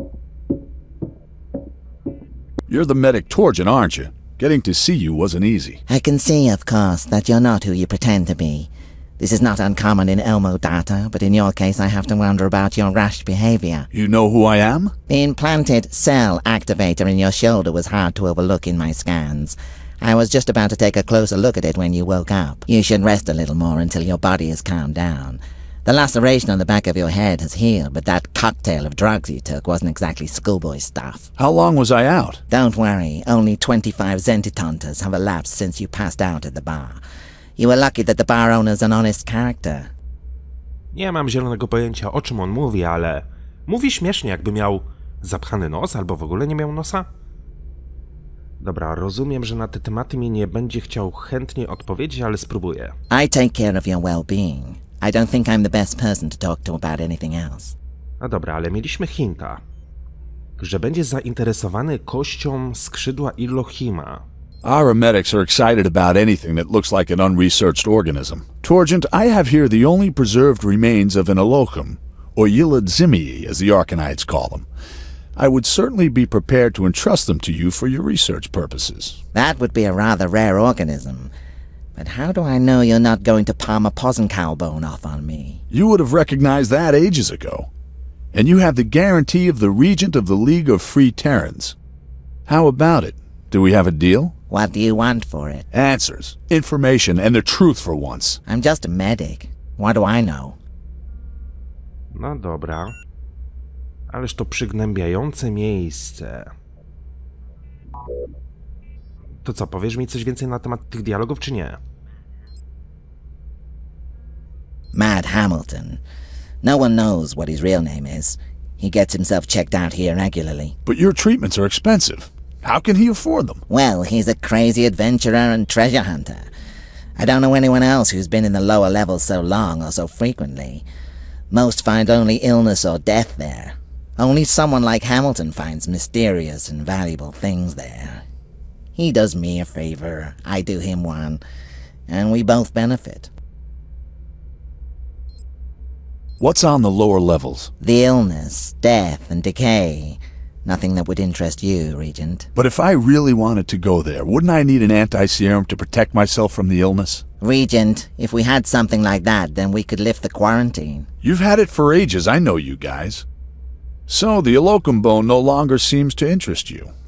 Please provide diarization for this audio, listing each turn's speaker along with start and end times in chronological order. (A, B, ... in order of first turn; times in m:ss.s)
0:02.7-0:05.8 A
0:05.9-0:13.9 B
0:13.9-0:14.9 A
0:15.1-0:31.3 B
0:31.4-0:32.4 A
0:32.5-0:37.0 B
0:37.6-0:39.9 B
0:40.9-0:47.1 C
0:48.6-0:52.9 C
0:53.1-0:57.7 B
0:58.2-0:59.6 C
1:00.6-1:04.2 C
1:04.6-1:14.7 A
1:15.4-1:19.2 A
1:19.3-1:21.3 B
1:22.0-1:25.6 B
1:25.7-1:27.7 A
1:28.3-1:31.8 A
1:32.5-1:34.3 A
1:34.5-1:35.6 B
1:35.7-1:38.4 A
1:38.5-1:40.6 B
1:42.1-1:42.9 C
1:44.1-1:46.5 C
1:49.4-1:51.8 C
1:54.9-1:56.0 B
1:56.6-2:00.7 B
2:00.8-2:03.6 A
2:03.7-2:06.5 B
2:07.2-2:10.8 B
2:11.5-2:18.2 B
2:19.0-2:21.4 B
2:22.1-2:23.3 B
2:26.4-2:27.7 A
2:27.8-2:32.5 B
2:32.5-2:37.2 A
2:37.4-2:41.1 B
2:41.2-2:43.2 A
2:44.1-2:46.9 A